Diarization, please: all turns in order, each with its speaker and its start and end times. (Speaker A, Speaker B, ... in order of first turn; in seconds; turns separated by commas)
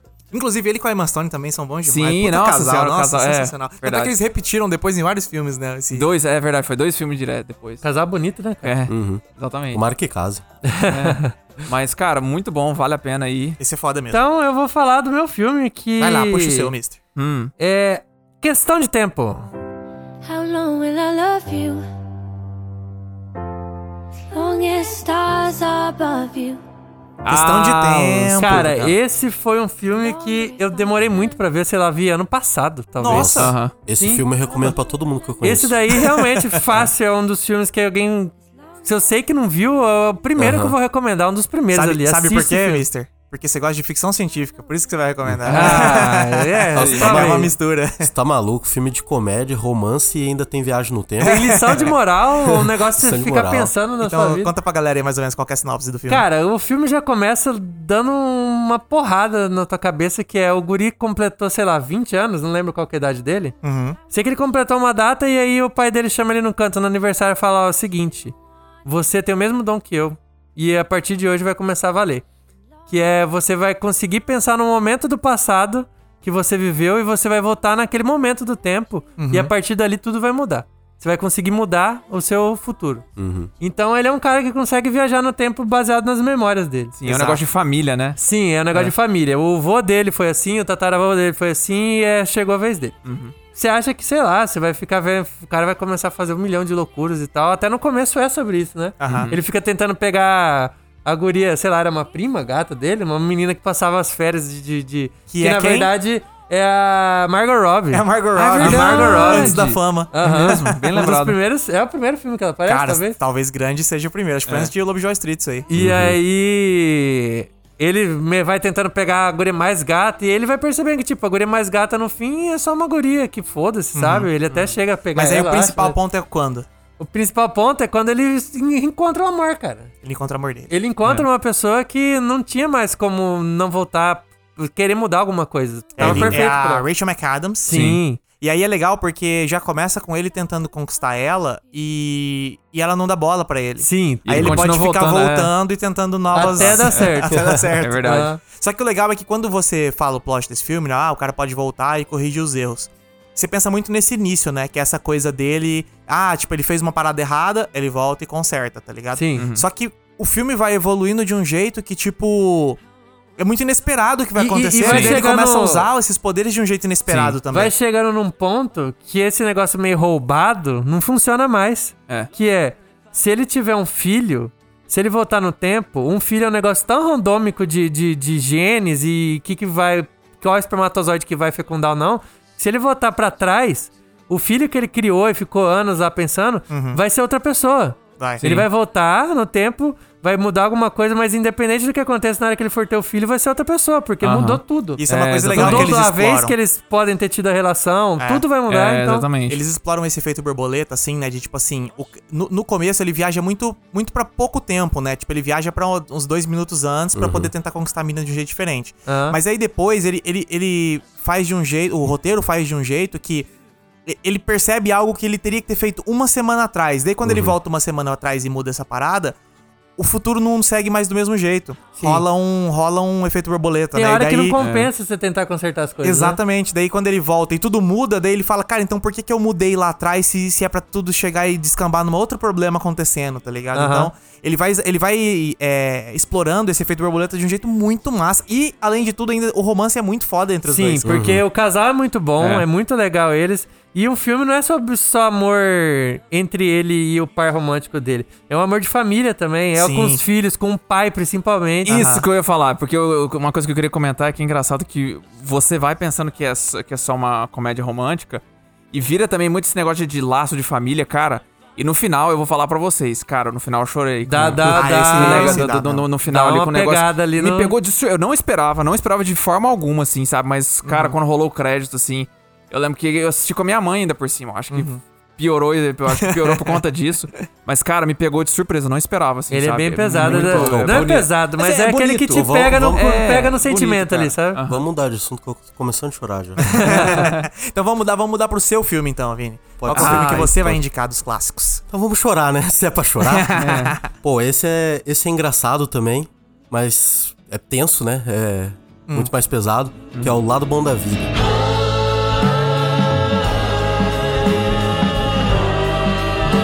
Speaker A: 0.3-6.1, Speaker B: 1.9-4.1, Speaker B: 5.9-7.8, Speaker C: 7.8-8.7, Speaker B: 8.6-9.8, Speaker D: 8.9-10.4, Speaker C: 10.7-11.3, Speaker B: 10.9-13.6, Speaker A: 13.6-14.2, Speaker C: 14.1-16.7, Speaker A: 16.0-17.0, Speaker B: 17.2-17.5, Speaker C: 17.6-19.5, Speaker E: 20.2-21.9, Speaker E: 24.3-26.6, Speaker B: 27.2-28.9, Speaker A: 27.3-28.9, Speaker C: 28.4-33.4, Speaker A: 33.0-33.5, Speaker D: 33.1-36.0, Speaker B: 33.4-33.7, Speaker C: 34.0-34.3, Speaker C: 35.4-42.9, Speaker D: 40.4-40.8, Speaker A: 41.7-48.1, Speaker D: 45.2-45.9, Speaker C: 45.5-47.5, Speaker D: 46.8-51.9, Speaker B: 46.8-47.1, Speaker C: 51.2-54.5, Speaker A: 51.2-51.9, Speaker D: 52.5-53.8, Speaker A: 54.0-56.3, Speaker C: 56.1-63.5, Speaker A: 63.6-64.0, Speaker C: 64.1-72.2, Speaker C: 72.9-83.0, Speaker A: 79.2-79.5, Speaker D: 83.2-83.5, Speaker C: 83.6-87.4, Speaker B: 87.0-88.2, Speaker A: 87.1-87.4, Speaker C: 88.2-93.0, Speaker B: 93.0-93.3, Speaker C: 93.5-109.6, Speaker A: 99.0-99.3, Speaker B: 99.0-99.4, Speaker A: 105.3-105.9, Speaker A: 107.9-110.8, Speaker B: 108.6-111.4, Speaker C: 110.1-113.2, Speaker A: 112.7-115.7, Speaker B: 114.5-114.7, Speaker C: 115.7-126.0, Speaker D: 115.8-116.2, Speaker A: 124.0-124.3, Speaker B: 124.5-124.8, Speaker A: 125.2-126.7, Speaker C: 127.0-129.9, Speaker A: 130.0-130.7, Speaker C: 130.7-136.9, Speaker A: 136.0-137.8, Speaker D: 136.0-136.4, Speaker C: 137.7-138.2, Speaker B: 137.7-138.0, Speaker A: 138.4-162.8, Speaker C: 143.8-144.7, Speaker B: 144.3-145.5, Speaker C: 146.3-147.4, Speaker B: 146.5-147.1, Speaker B: 147.8-148.3, Speaker C: 148.0-148.4, Speaker C: 159.2-159.5, Speaker B: 159.4-159.7, Speaker A: 163.4-167.7, Speaker C: 164.4-165.9, Speaker B: 164.8-165.2, Speaker B: 167.1-167.4, Speaker C: 167.5-199.3, Speaker A: 186.7-187.0, Speaker B: 188.4-188.7, Speaker B: 194.2-196.0, Speaker A: 195.0-196.6, Speaker A: 198.2-198.4, Speaker B: 198.7-199.6, Speaker A: 199.5-213.5, Speaker D: 207.2-207.5, Speaker C: 209.1-209.4, Speaker A: 214.1-219.4, Speaker D: 217.2-217.6, Speaker A: 220.0-224.6, Speaker C: 222.0-222.2, Speaker C: 223.9-226.4, Speaker B: 224.6-224.9, Speaker A: 226.0-241.1, Speaker C: 233.7-234.1, Speaker C: 240.7-252.1, Speaker D: 241.1-241.4, Speaker B: 242.4-242.7, Speaker A: 249.8-250.2, Speaker B: 251.8-281.3, Speaker A: 251.9-252.3, Speaker C: 264.3-265.7, Speaker A: 264.6-266.1, Speaker C: 266.3-267.7, Speaker A: 270.9-271.2, Speaker A: 274.7-275.0, Speaker A: 276.2-276.8, Speaker C: 279.5-284.6, Speaker D: 280.2-281.2, Speaker D: 281.9-283.2, Speaker B: 282.9-284.8, Speaker D: 284.7-287.2, Speaker A: 286.6-291.8, Speaker B: 286.9-287.5, Speaker D: 289.8-290.8, Speaker B: 289.9-290.4, Speaker C: 290.1-290.4, Speaker D: 291.9-293.6, Speaker A: 293.2-294.1, Speaker B: 293.6-294.0, Speaker D: 294.2-301.3